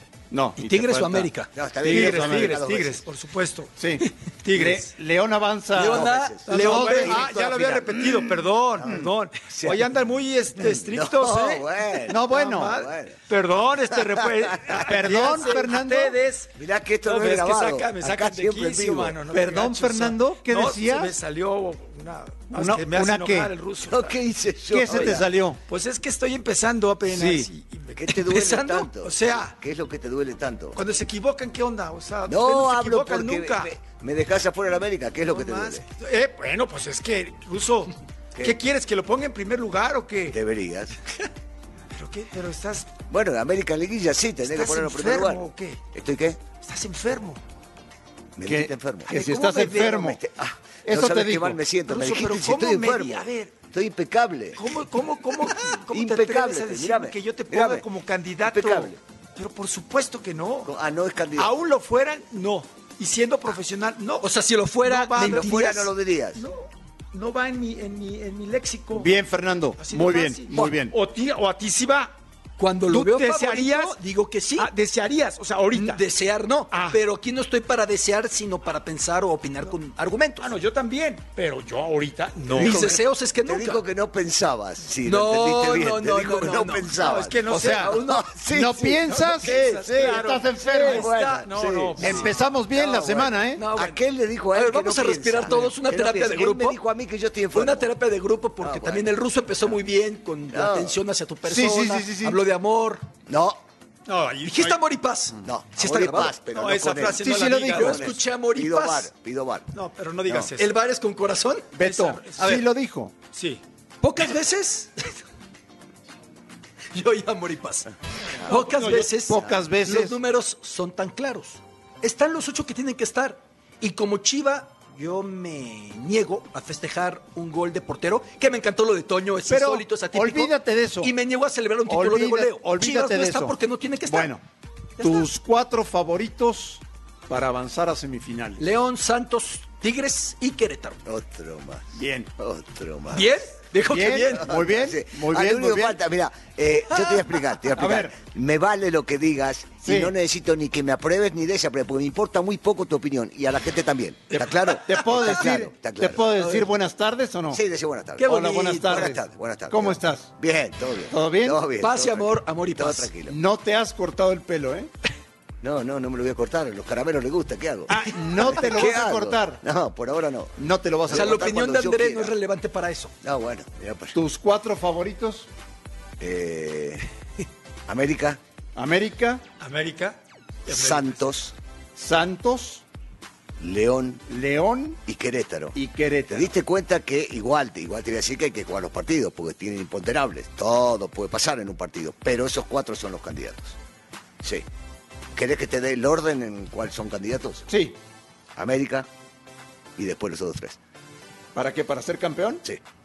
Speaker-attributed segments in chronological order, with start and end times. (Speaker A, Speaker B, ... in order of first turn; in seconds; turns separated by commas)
Speaker A: 0.3-2.7, Speaker B: 0.6-1.5, Speaker C: 1.5-3.0, Speaker D: 1.9-3.7, Speaker A: 3.8-7.9, Speaker D: 4.4-4.9, Speaker B: 5.7-7.3, Speaker C: 5.8-7.3, Speaker D: 6.5-11.7, Speaker C: 8.8-9.8, Speaker C: 10.6-13.2, Speaker A: 12.1-12.8, Speaker D: 12.2-16.5, Speaker C: 14.1-15.6, Speaker A: 14.8-16.2, Speaker C: 16.6-19.2, Speaker D: 17.0-24.2, Speaker A: 19.3-21.1, Speaker A: 22.5-23.5, Speaker C: 23.9-25.2, Speaker A: 24.7-25.6, Speaker D: 24.9-29.6, Speaker A: 27.1-27.5, Speaker C: 28.0-30.8, Speaker B: 28.2-28.9, Speaker D: 30.8-33.7, Speaker C: 32.2-35.8, Speaker D: 35.2-40.4, Speaker C: 40.3-40.9, Speaker D: 41.9-42.9, Speaker C: 43.1-45.4, Speaker D: 44.4-45.8, Speaker C: 45.9-46.4, Speaker D: 46.6-47.4, Speaker C: 48.4-49.1, Speaker A: 48.4-50.2, Speaker D: 49.1-50.0, Speaker C: 49.9-54.8, Speaker A: 50.8-51.7, Speaker D: 51.8-53.5, Speaker D: 54.5-60.7, Speaker C: 55.5-57.8, Speaker C: 58.4-59.0, Speaker C: 60.6-61.5, Speaker D: 61.4-64.3, Speaker B: 64.2-65.9, Speaker D: 64.8-69.1, Speaker C: 65.2-66.4, Speaker A: 68.9-70.9, Speaker D: 69.8-72.1, Speaker B: 72.6-74.7, Speaker D: 72.9-74.0, Speaker D: 74.6-76.0, Speaker B: 75.7-80.5, Speaker D: 76.7-77.0, Speaker D: 80.4-83.0, Speaker B: 82.5-83.8, Speaker C: 82.6-89.0, Speaker B: 85.0-87.1, Speaker D: 86.9-88.2, Speaker A: 87.5-88.0, Speaker B: 87.8-88.2, Speaker A: 88.5-91.1, Speaker D: 89.0-92.3, Speaker C: 90.8-97.9, Speaker A: 92.0-93.6, Speaker B: 93.5-94.0, Speaker B: 94.5-96.8, Speaker B: 97.5-103.0, Speaker C: 98.6-99.1, Speaker C: 100.5-101.0, Speaker A: 101.4-102.4, Speaker C: 103.3-103.6, Speaker D: 104.1-104.8, Speaker B: 104.4-109.1, Speaker C: 105.4-109.7, Speaker D: 106.5-108.0, Speaker A: 107.3-107.9, Speaker D: 109.7-110.7, Speaker C: 110.2-110.5, Speaker B: 110.6-111.7, Speaker A: 111.8-113.1, Speaker D: 111.8-112.6, Speaker D: 113.3-113.6, Speaker B: 114.0-115.1, Speaker B: 116.9-117.9, Speaker B: 118.5-134.3, Speaker A: 118.5-120.2, Speaker A: 129.5-131.1, Speaker A: 131.9-133.5, Speaker A: 134.1-134.4, Speaker B: 135.0-135.3, Speaker A: 135.0-138.6, Speaker B: 138.6-141.0, Speaker C: 141.1-143.3, Speaker A: 141.9-142.3, Speaker B: 143.1-144.5, Speaker A: 143.9-146.0, Speaker C: 144.3-156.2, Speaker B: 146.9-147.3, Speaker A: 147.7-148.2, Speaker A: 149.8-150.1, Speaker A: 154.3-157.6, Speaker B: 156.4-156.6, Speaker C: 157.5-163.4, Speaker B: 158.2-159.1, Speaker A: 158.2-160.3, Speaker A: 161.1-161.6, Speaker B: 161.8-163.1, Speaker A: 163.3-164.9, Speaker C: 165.6-172.3, Speaker A: 167.9-169.6, Speaker A: 170.6-171.5, Speaker B: 171.1-173.1, Speaker C: 173.2-174.2, Speaker A: 174.1-175.5, Speaker C: 176.2-177.0, Speaker C: 177.9-178.4, Speaker A: 178.8-179.4, Speaker D: 179.6-181.2, Speaker C: 180.7-181.5, Speaker A: 181.9-182.8, Speaker C: 183.6-184.2, Speaker A: 184.3-185.0, Speaker C: 185.0-185.8, Speaker A: 185.7-186.5, Speaker C: 186.3-193.8, Speaker C: 195.3-197.7, Speaker A: 197.7-197.9, Speaker C: 198.6-199.1, Speaker C: 200.0-200.8, Speaker A: 201.5-202.6